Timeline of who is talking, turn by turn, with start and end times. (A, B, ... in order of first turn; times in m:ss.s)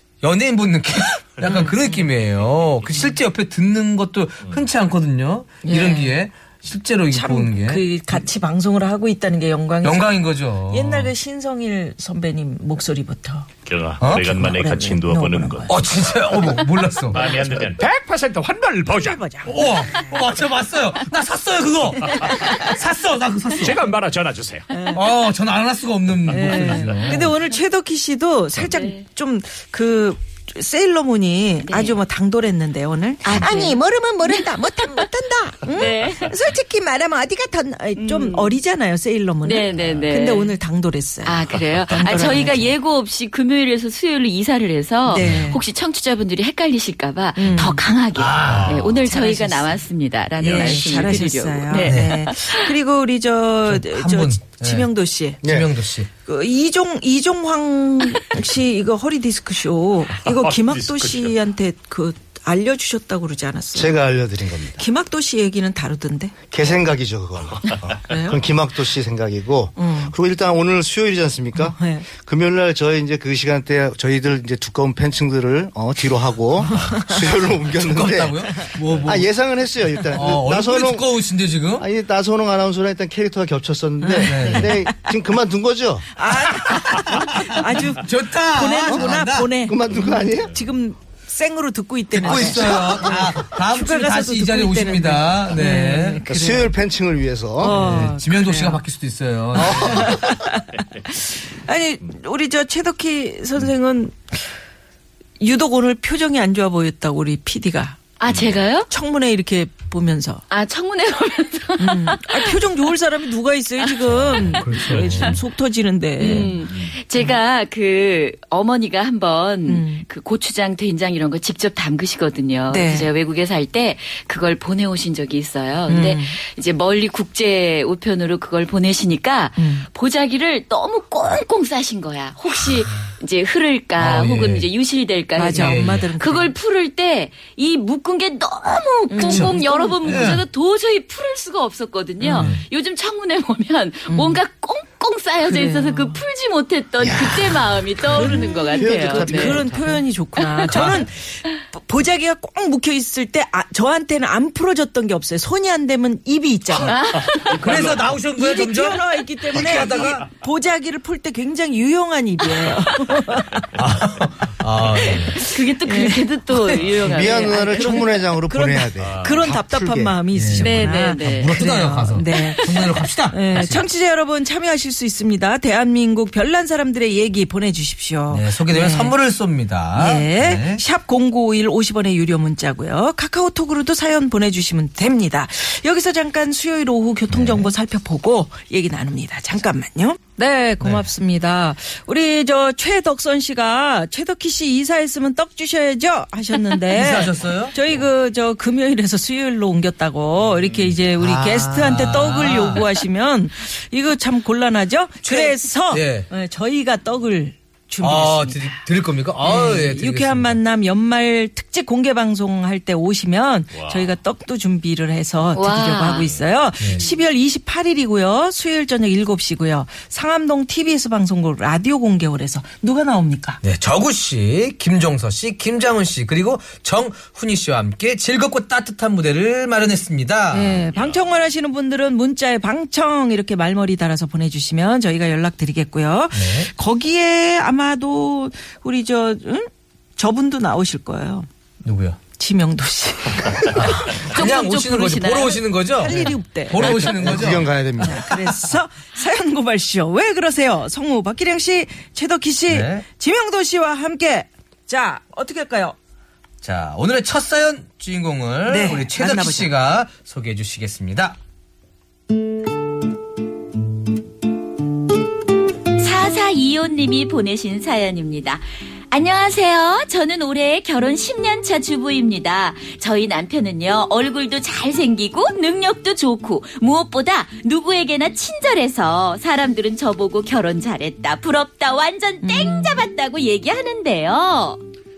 0:00.2-0:08.2 A
0:01.4-0:02.0 B
0:05.6-0:06.2 B
0:07.1-0:13.5 B
0:09.8-0:11.1 A
0:13.7-0:15.7 C
0:14.0-0:14.3 A
0:14.1-0:15.8 B
0:15.7-0:17.5 A
0:17.1-0:19.2 C
0:18.9-0:20.2 B
0:19.4-0:23.8 A
0:23.6-0:24.7 C
0:24.7-0:25.1 B
0:24.9-0:27.4 A
0:26.3-0:42.7 B
0:28.7-0:29.0 D
0:31.6-0:32.0 D
0:33.2-0:35.0 D
0:35.7-0:36.4 D
0:38.0-0:38.6 D
0:39.4-0:40.5 D
0:41.2-0:52.7 D
0:45.1-0:45.6 B
0:45.2-0:45.4 A
0:47.4-0:47.8 B
0:48.2-0:48.8 A
0:48.5-0:49.0 C
0:49.0-0:49.8 B
0:50.4-0:51.0 C
0:50.5-0:55.5 B
0:51.8-0:52.2 A
0:53.6-0:56.1 A
0:55.4-0:55.7 E
0:56.2-1:04.0 B
1:00.2-1:01.3 C
1:03.8-1:04.8 E
1:04.8-1:06.4 B
1:06.5-1:21.1 E
1:08.1-1:08.4 B
1:09.8-1:10.1 B
1:11.6-1:12.1 B
1:17.7-1:19.3 A
1:20.1-1:21.9 A
1:21.8-1:26.1 E
1:24.0-1:24.9 B
1:24.2-1:24.8 A
1:26.1-1:36.7 B
1:26.5-1:29.5 A
1:28.9-1:29.1 E
1:29.7-1:30.5 E
1:32.1-1:36.2 A
1:32.2-1:33.3 E
1:36.3-1:37.8 E
1:37.6-1:38.8 B
1:37.6-1:40.3 A
1:39.6-1:40.1 E
1:39.6-1:44.4 B
1:45.4-1:48.0 B
1:48.2-1:48.9 D
1:48.3-1:48.7 C
1:48.9-1:50.4 B
1:50.5-1:52.6 D
1:51.8-1:56.6 B
1:54.0-1:55.4 A
1:54.4-1:55.0 D
1:56.2-2:29.6 D
1:59.6-2:00.1 B
2:02.7-2:03.1 B
2:05.9-2:06.4 B
2:09.6-2:09.9 B
2:14.0-2:14.7 A
2:15.4-2:16.5 B
2:15.5-2:16.1 A
2:19.1-2:20.1 B
2:19.2-2:20.4 A
2:22.2-2:22.5 B
2:22.3-2:22.6 A
2:24.1-2:24.4 B
2:25.4-2:26.2 B
2:27.0-2:30.0 E
2:28.1-2:37.0 B
2:30.7-2:31.0 A
2:36.9-2:37.6 D
2:37.3-2:38.1 C
2:37.6-2:40.3 A
2:38.4-2:43.8 B
2:39.6-2:40.1 C
2:42.6-2:43.2 D
2:43.7-2:45.4 A
2:45.0-2:48.2 D
2:45.3-2:59.2 B
2:47.0-2:50.2 E
2:49.0-2:49.5 C
2:50.3-2:53.9 A
2:50.6-2:51.6 D
2:52.5-2:52.8 D
2:58.3-3:00.8 A
2:59.9-3:28.8 B
3:07.3-3:07.7 A
3:10.8-3:11.1 A
3:16.9-3:18.0 A
3:21.2-3:22.0 E
3:21.7-3:22.9 A
3:25.2-3:26.3 A
3:28.0-3:30.6 A
3:29.4-3:43.6 B
3:33.7-3:34.2 C
3:35.6-3:36.3 D
3:36.8-3:37.1 A
3:43.6-3:50.9 A
3:50.5-4:01.5 B
3:50.9-3:51.2 C
3:56.3-3:56.7 A
4:01.8-4:02.2 A
4:02.4-4:03.8 B
4:03.7-4:08.7 A
4:04.3-4:05.6 D
4:06.0-4:16.0 B
4:06.7-4:08.2 E
4:12.7-4:13.0 A
4:16.6-4:21.4 A
4:18.7-4:19.7 B
4:26.0-4:44.8 D
4:42.4-4:43.0 B